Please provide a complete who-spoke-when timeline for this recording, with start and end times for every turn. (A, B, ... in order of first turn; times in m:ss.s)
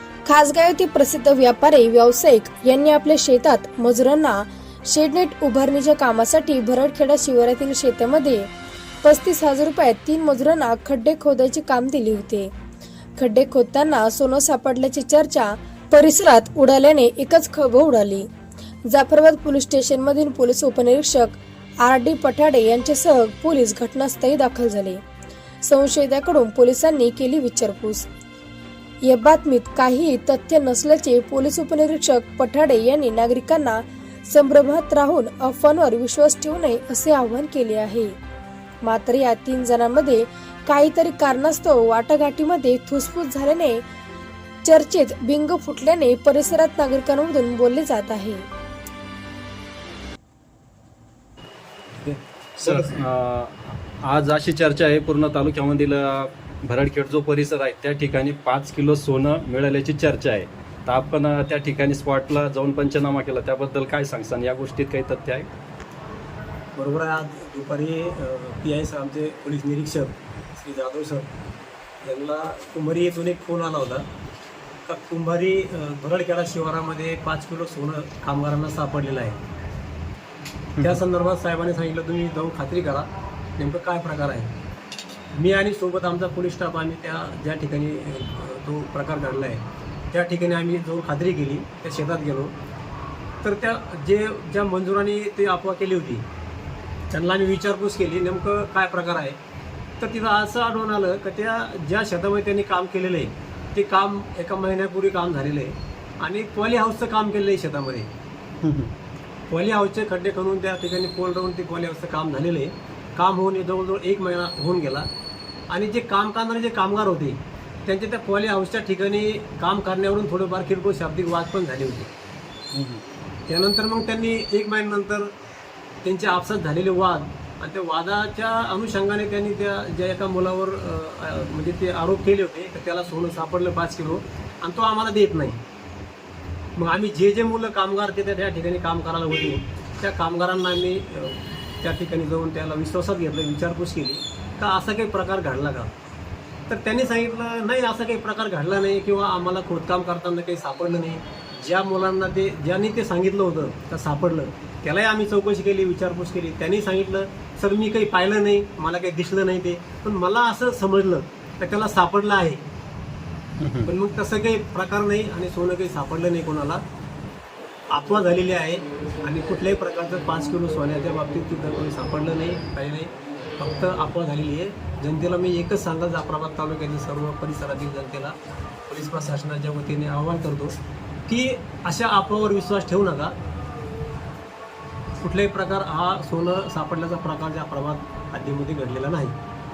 0:00.2-0:08.5 A
0:09.0-0:12.5 A
0:13.2-0:18.3 A
0:18.9-0:25.0 A
0:25.6-0:28.1 A
0:29.0-0:38.1 A
0:38.8-0:43.8 A
0:44.6-0:48.5 A
0:52.0-0:52.9 B
0:52.6-1:05.5 C
1:06.7-1:11.3 B
1:12.0-1:14.0 B
1:14.9-1:19.4 B
1:20.8-1:24.5 B
1:25.3-1:32.5 B
1:33.4-1:36.2 B
1:37.1-1:39.4 B
1:40.0-1:48.1 B
1:48.6-1:48.9 C
1:49.5-1:55.0 B
1:55.7-2:02.1 B
2:02.7-2:03.0 C
2:03.5-2:05.3 B
2:06.0-2:15.6 B
2:16.8-2:25.9 B
2:26.7-2:42.6 B
2:43.6-2:43.9 C
2:43.8-2:46.8 B
2:47.9-2:58.3 B
2:58.9-3:00.8 B
3:01.3-3:03.3 B
3:05.2-3:09.4 B